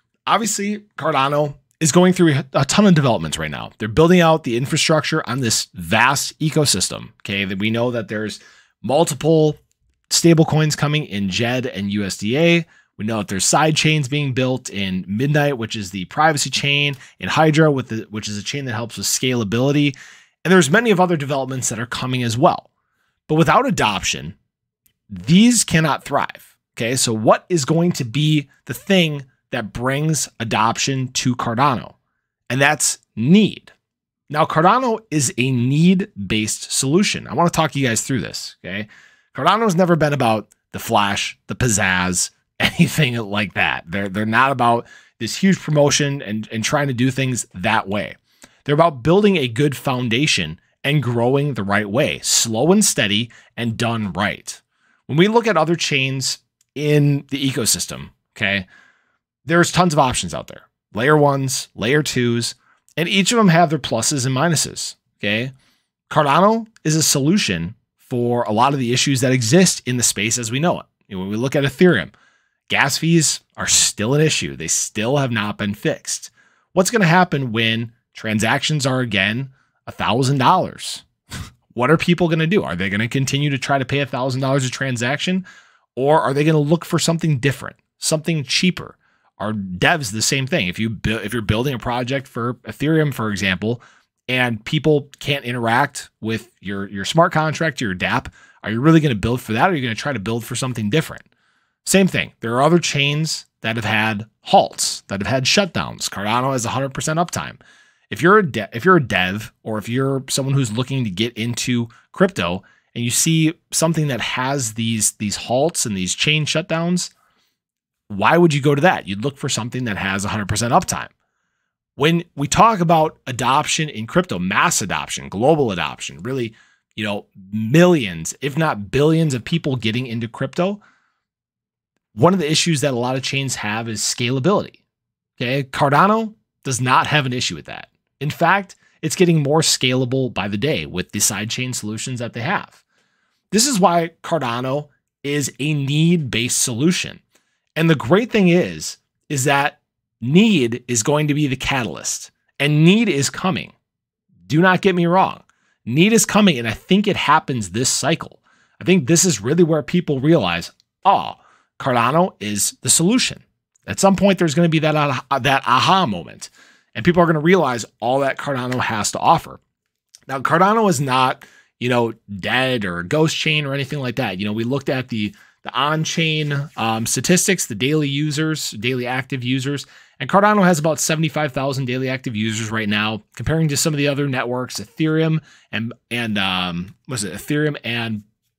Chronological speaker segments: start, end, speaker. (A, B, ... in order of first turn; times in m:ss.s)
0:00.3-0:22.7 A
0:23.3-0:24.4 A
0:25.1-0:32.0 A
0:32.5-0:33.7 A
0:34.3-0:58.6 A
0:59.4-1:05.5 A
1:06.1-1:12.1 A
1:12.7-1:21.0 A
1:21.7-1:25.4 A
1:26.0-1:41.2 A
1:41.8-1:47.6 A
1:48.1-1:57.1 A
1:58.1-2:01.1 A
2:02.0-2:10.8 A
2:12.1-2:14.8 A
2:15.4-2:22.8 A
2:23.5-2:27.2 A
2:27.8-2:33.7 A
2:34.5-2:49.6 A
2:50.3-3:08.2 A